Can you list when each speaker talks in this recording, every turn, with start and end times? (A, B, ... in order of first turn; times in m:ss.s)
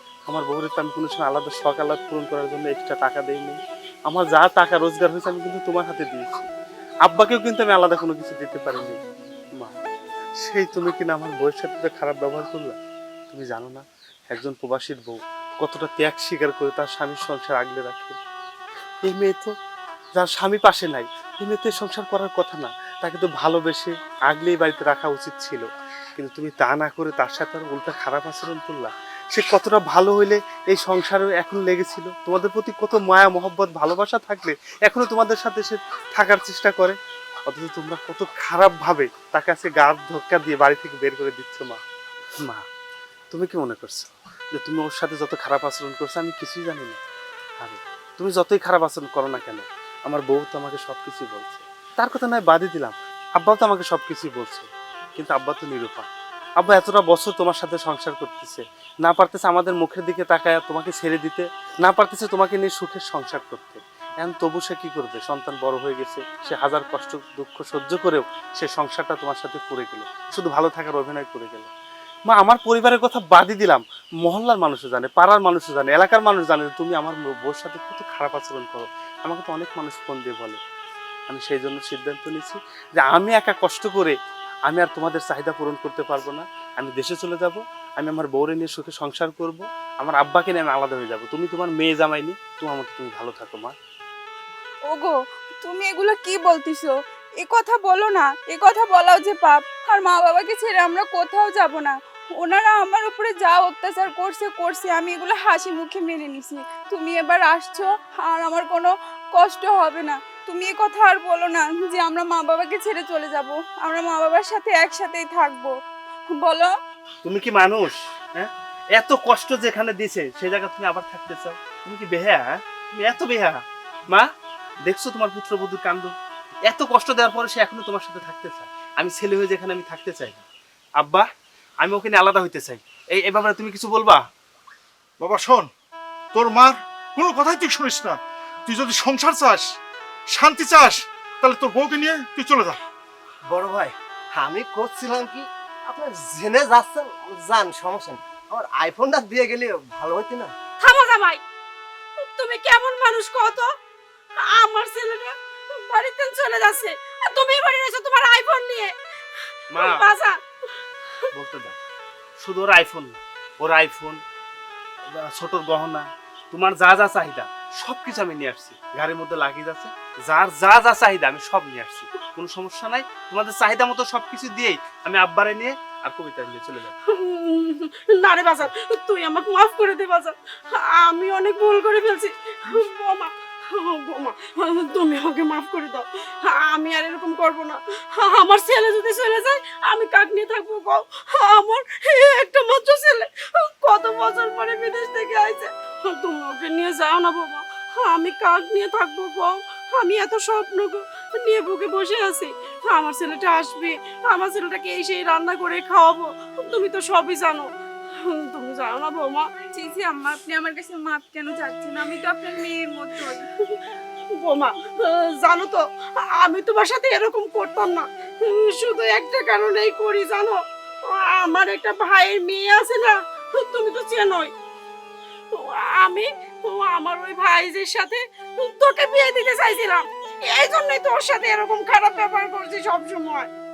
0:00.3-0:06.5 A
0:07.0-0:09.0 A
0:10.4-0:12.8 A
0:13.3-0:18.2 A
0:19.0-0:19.5 A
0:20.2-0:41.8 A
0:43.3-0:47.0 A
0:47.6-0:56.1 A
0:56.6-1:11.7 A
1:12.3-1:20.6 A
1:21.3-1:24.2 A
1:24.7-1:33.8 A
1:34.9-1:55.7 B
1:56.3-1:56.7 B
1:57.2-2:04.3 A
2:04.8-2:06.1 A
2:06.7-2:10.4 A
2:11.0-2:11.3 A
2:11.8-2:14.2 A
2:15.2-2:15.7 C
2:16.3-2:19.6 C
2:20.3-2:22.8 C
2:23.5-2:30.5 D
2:30.8-2:31.4 E
2:32.2-2:33.7 E
2:34.4-2:38.9 E
2:39.7-2:40.0 A
2:39.8-2:40.4 E
2:41.3-2:41.8 A
2:42.4-2:44.2 A
2:45.2-2:57.0 A
2:57.1-3:27.7 E
3:28.2-3:29.5 E
3:29.8-3:33.4 B
3:34.4-3:44.5 E
3:45.6-3:53.5 E